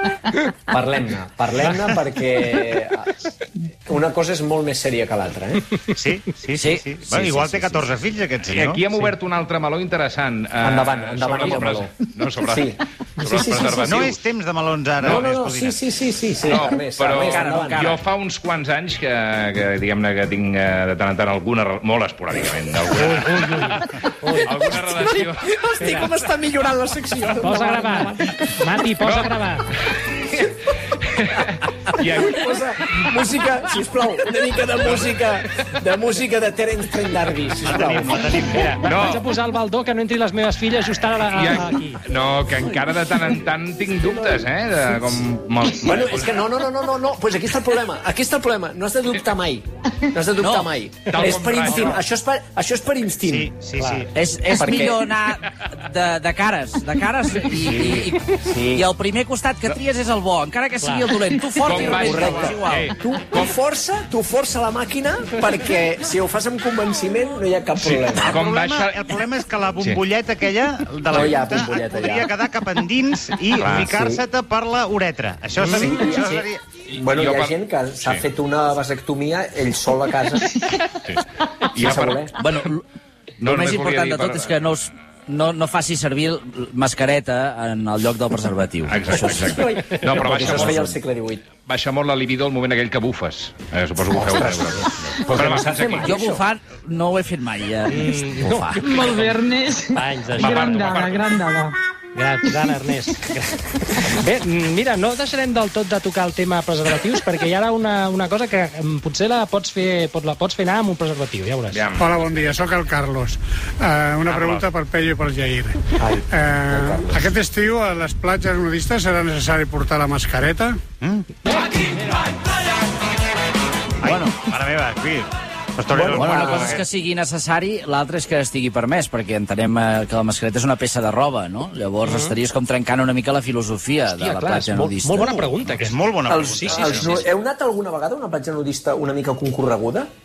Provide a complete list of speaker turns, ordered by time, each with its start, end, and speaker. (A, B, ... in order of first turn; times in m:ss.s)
0:00.7-0:03.2 A
0:03.8-0:05.8 A
0:05.9-0:08.8 B
0:06.6-0:07.9 C
0:08.4-0:14.2 D
0:10.6-0:14.0 A
0:13.8-0:15.8 B
0:15.0-0:15.2 D
0:15.0-0:18.0 A
0:16.4-0:25.6 D
0:17.3-0:17.8 C
0:22.9-0:24.8 E
0:24.9-0:28.9 A
0:25.8-0:26.1 E
0:27.4-0:29.6 E
0:29.0-0:29.3 D
0:29.9-0:30.4 D
0:31.1-0:32.4 D
0:31.9-0:38.4 A
0:37.7-0:38.7 B
0:38.5-0:42.0 E
0:38.8-0:39.2 D
0:41.3-0:46.3 D
0:45.8-0:53.5 A
0:50.4-0:50.7 C
0:51.1-0:52.0 D
0:53.2-0:54.9 B
0:53.8-0:54.1 E
0:54.1-1:02.9 C
0:54.5-0:55.0 A
0:57.6-0:58.9 A
1:00.8-1:01.2 E
1:01.6-1:03.5 D
1:01.7-1:08.4 A
1:01.8-1:02.5 B
1:07.8-1:09.1 D
1:08.2-1:16.6 B
1:11.1-1:12.3 A
1:13.6-1:13.9 D
1:13.6-1:14.2 A
1:15.6-1:15.9 D
1:15.6-1:20.6 A
1:17.0-1:18.2 D
1:20.5-1:20.9 F
1:21.0-1:22.3 D
1:21.7-1:22.4 A
1:22.4-1:22.8 C
1:23.4-1:29.4 C
1:23.4-1:24.5 D
1:28.9-1:30.9 D
1:29.1-1:31.4 A
1:30.4-1:30.9 C
1:31.7-1:36.2 D
1:34.1-1:36.4 A
1:36.1-1:38.8 C
1:37.9-1:39.3 E
1:38.8-1:41.8 F
1:39.9-1:41.0 E
1:40.4-1:41.3 D
1:42.1-1:51.8 E
1:51.7-1:52.4 D
1:51.9-2:00.8 G
1:54.3-1:54.7 B
1:56.0-1:57.3 A
2:01.0-2:01.3 B
2:04.0-2:06.8 B
2:04.0-2:04.4 C
2:05.9-2:06.8 A
2:06.2-2:15.3 C
2:12.0-2:12.4 E
2:14.1-2:16.8 E
2:15.2-2:17.1 B
2:16.3-2:20.1 A
2:16.9-2:17.2 D